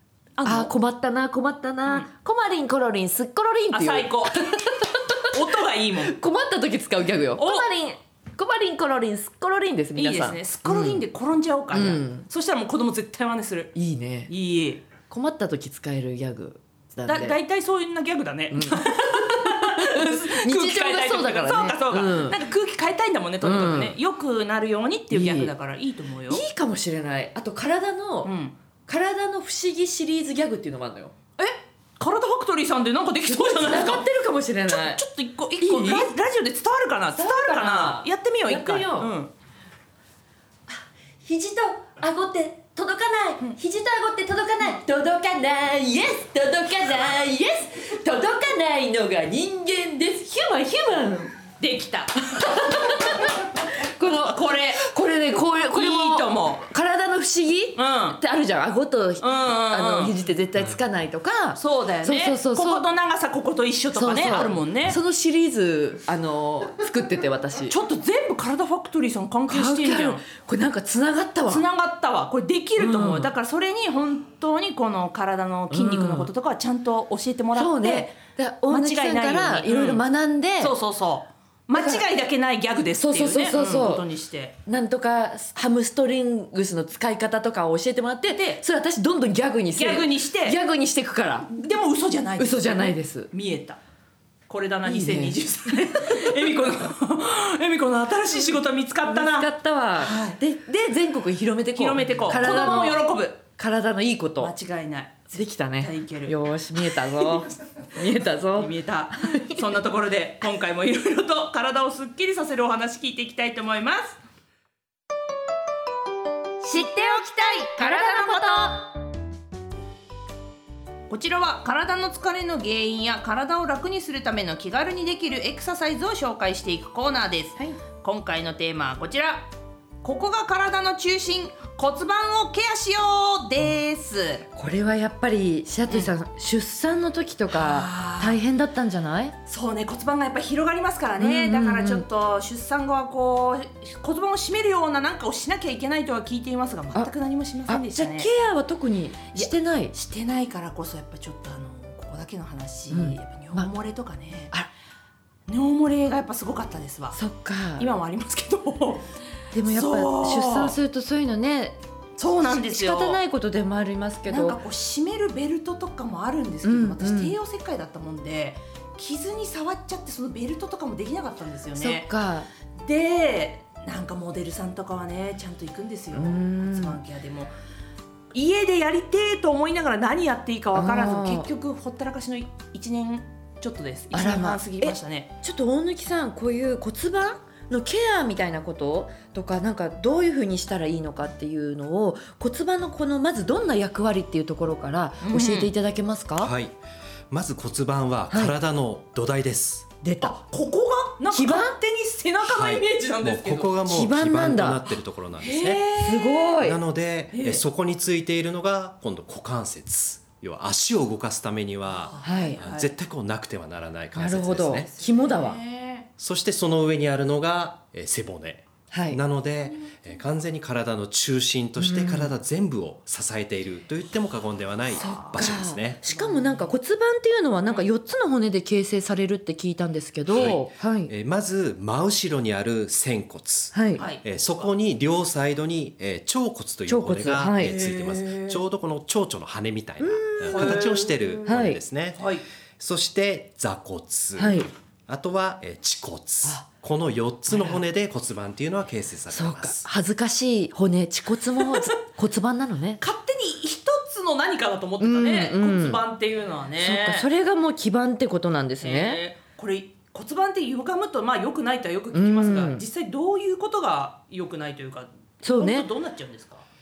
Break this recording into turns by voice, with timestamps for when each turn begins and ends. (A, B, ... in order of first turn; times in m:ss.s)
0:00.4-0:00.7 A
0:00.4-0:05.2 B
0:03.7-0:06.1 A
0:06.0-0:11.1 B
0:07.4-0:07.7 A
0:10.0-0:13.7 A
0:11.7-0:12.3 B
0:13.8-0:14.3 B
0:14.3-0:14.8 A
0:15.1-0:17.4 B
0:17.0-0:26.4 A
0:18.5-0:22.4 B
0:23.4-0:24.0 B
0:25.1-0:25.5 B
0:26.3-0:28.3 B
0:28.2-0:28.6 A
0:28.9-0:31.1 B
0:31.4-0:34.0 A
0:33.2-0:35.0 B
0:34.7-0:39.3 A
0:35.6-0:36.1 B
0:37.1-0:39.1 B
0:40.7-0:51.4 B
0:51.6-0:53.2 A
0:52.4-0:53.3 B
0:53.9-1:02.9 B
0:54.1-0:54.8 A
0:55.7-0:56.7 A
0:57.8-0:58.2 A
0:59.2-1:00.1 A
1:01.6-1:05.0 A
1:03.9-1:07.8 B
1:07.7-1:10.2 A
1:09.5-1:11.6 B
1:11.5-1:18.1 A
1:12.8-1:13.3 B
1:15.7-1:16.3 B
1:17.5-1:20.8 B
1:18.7-1:20.0 A
1:20.6-1:24.6 A
1:21.8-1:22.0 B
1:23.0-1:24.1 B
1:24.7-1:31.5 B
1:28.3-1:28.6 A
1:29.8-1:30.6 A
1:31.5-1:33.8 A
1:32.4-1:33.3 B
1:34.5-1:40.4 A
1:34.8-1:36.4 B
1:39.0-1:44.5 B
1:41.7-1:43.4 A
1:44.4-1:46.4 A
1:45.3-1:49.6 B
1:48.6-1:54.2 A
1:56.6-1:58.9 A
1:57.4-1:58.8 B
2:01.1-2:09.5 A
2:10.0-2:14.4 A
2:14.6-2:19.4 B
2:17.5-2:18.4 A
2:19.5-2:28.3 A
2:21.2-2:22.1 B
2:27.7-2:29.9 B
2:29.3-2:34.5 A
2:32.9-2:33.7 B
2:35.5-2:37.2 A
2:37.1-2:37.9 B
2:37.8-2:39.1 A
2:39.5-2:41.8 B
2:39.7-2:40.8 A
2:42.2-2:43.2 A
2:42.4-2:44.6 B
2:44.3-2:52.1 A
2:46.6-2:47.4 B
2:51.8-2:52.5 B
2:52.8-2:57.5 A
2:56.1-2:57.0 B
2:58.3-3:05.3 A
3:00.8-3:01.5 B
3:04.1-3:16.5 B
3:15.2-3:15.7 A
3:16.4-3:16.7 C
3:17.3-3:19.9 C
3:18.3-3:18.6 B
3:20.0-3:20.4 B
3:20.2-3:23.8 A
3:21.3-3:21.8 B
3:22.4-3:26.0 C
3:23.9-3:24.9 B
3:25.4-3:26.5 A
3:26.0-3:26.8 B
3:26.6-3:34.9 C
3:27.3-3:27.6 A
3:31.9-3:32.9 A
3:32.2-3:32.6 B
3:34.2-3:35.6 B
3:35.0-3:36.1 A
3:36.2-3:46.0 C
3:38.9-3:39.2 B
3:41.8-3:42.3 B
3:44.9-3:51.1 B
3:45.0-3:46.8 A
3:50.3-4:02.2 C
3:53.7-3:54.0 B
3:54.0-3:54.7 A
3:56.9-3:57.8 B
3:57.6-3:58.6 A
4:00.0-4:00.9 B
4:00.4-4:01.5 A
4:01.4-4:01.8 B
4:02.1-4:02.4 A
4:02.8-4:09.9 C
4:04.4-4:04.7 B
4:07.5-4:07.8 B
4:09.3-4:13.0 B
4:11.6-4:11.9 A
4:13.0-4:17.3 A
4:15.0-4:16.0 B
4:16.8-4:19.2 B
4:18.8-4:26.7 A
4:22.1-4:22.8 B
4:25.4-4:25.9 B